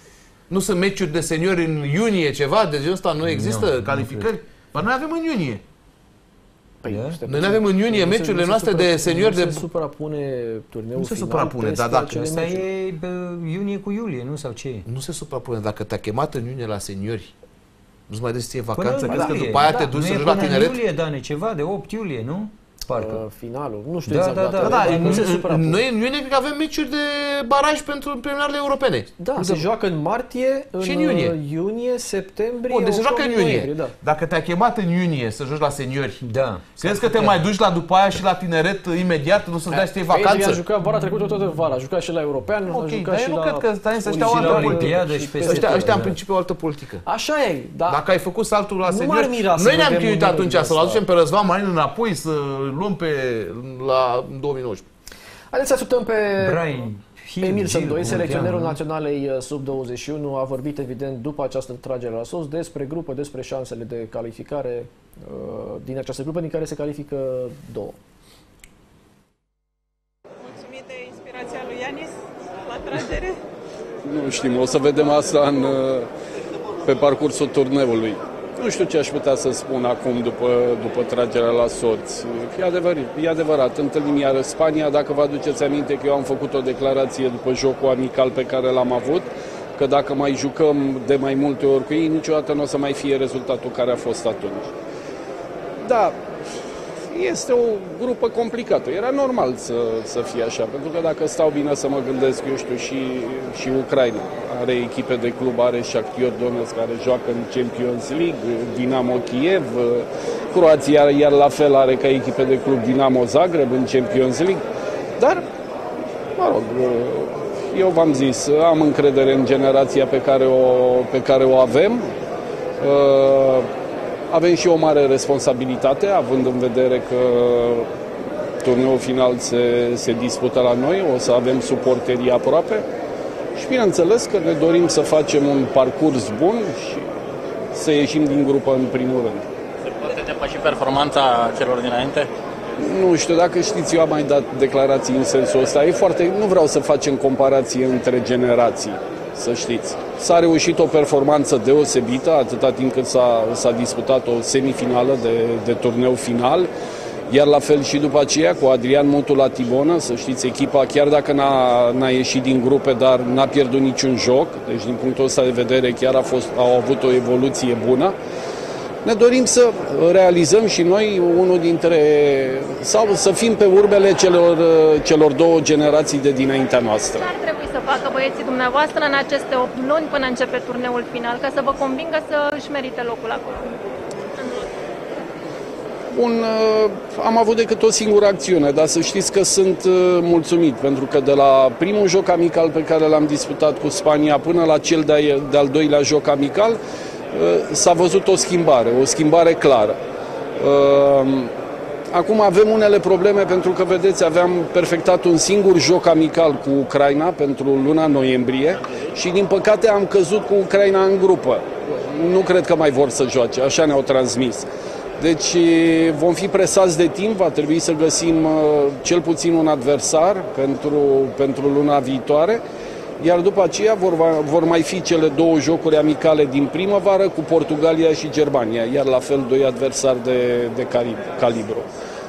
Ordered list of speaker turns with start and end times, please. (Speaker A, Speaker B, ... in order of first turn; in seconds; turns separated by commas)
Speaker A: 0.5-5.6, Speaker B: 3.2-4.3, Speaker C: 6.8-12.7, Speaker B: 6.9-7.2, Speaker A: 7.3-9.6, Speaker A: 11.0-12.2, Speaker B: 12.1-14.9, Speaker A: 14.9-17.3, Speaker A: 18.1-20.8, Speaker B: 18.8-23.2, Speaker C: 19.1-20.5, Speaker C: 22.9-25.8, Speaker B: 24.1-25.3, Speaker A: 24.6-29.7, Speaker C: 29.2-34.0, Speaker A: 30.8-31.4, Speaker A: 32.7-36.2, Speaker B: 36.2-37.4, Speaker A: 36.8-40.6, Speaker C: 39.7-45.9, Speaker A: 42.7-47.0, Speaker B: 44.1-46.2, Speaker C: 47.0-48.0, Speaker A: 47.9-54.9, Speaker C: 48.9-51.0, Speaker C: 55.5-56.6, Speaker B: 56.4-58.8, Speaker C: 57.4-68.0, Speaker D: 70.4-73.4, Speaker E: 74.0-76.1, Speaker E: 76.8-94.7, Speaker E: 95.8-96.2, Speaker E: 97.1-114.6, Speaker E: 115.2-115.5, Speaker E: 116.4-122.1, Speaker E: 122.8-123.7, Speaker E: 124.3-127.9, Speaker E: 128.6-132.8, Speaker E: 133.6-137.1, Speaker E: 137.7-139.4, Speaker F: 139.9-142.3, Speaker E: 142.8-156.7, Speaker E: 157.3-168.2, Speaker E: 169.0-177.3, Speaker G: 177.1-183.7, Speaker G: 184.4-184.7, Speaker E: 186.1-196.8, Speaker E: 197.3-200.0, Speaker E: 200.6-201.5, Speaker E: 202.1-214.7, Speaker E: 215.2-222.6, Speaker E: 223.2-231.9